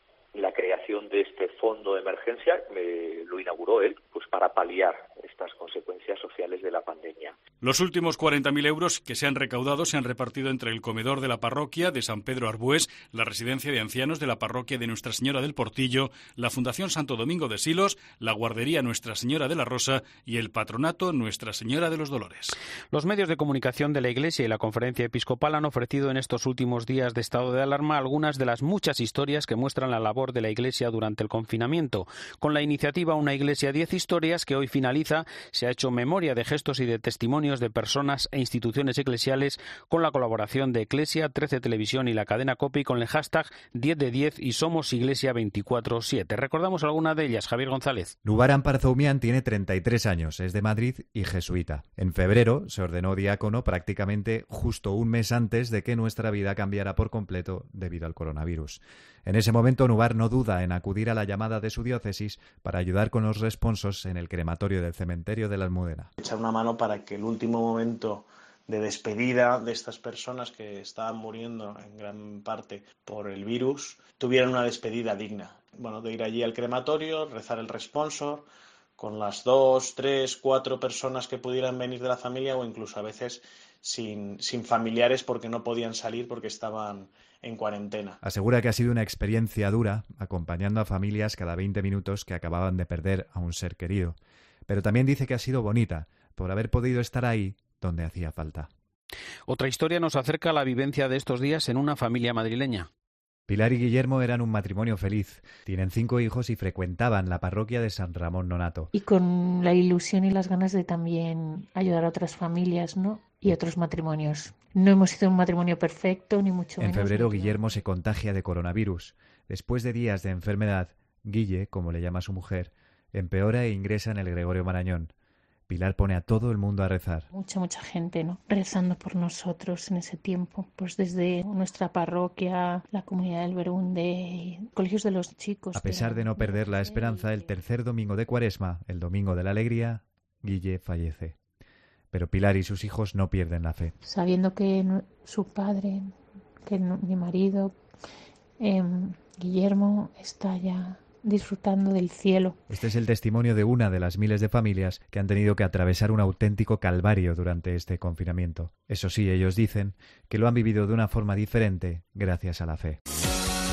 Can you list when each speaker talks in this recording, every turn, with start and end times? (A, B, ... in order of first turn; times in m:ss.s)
0:00.3-0:07.4 A
0:07.6-0:22.5 B
0:22.9-0:48.1 C
0:48.2-1:06.1 D
1:06.2-1:28.2 E
1:28.2-1:34.2 D
1:34.7-1:38.7 D
1:39.5-1:42.9 C
1:43.5-1:48.9 D
1:48.9-1:57.8 F
1:56.8-2:05.1 D
2:05.7-2:07.3 D
2:07.3-2:17.5 F
2:15.8-2:21.4 D
2:22.1-2:23.9 D
2:24.0-2:27.8 F
2:28.6-2:32.6 F
2:32.7-2:43.0 D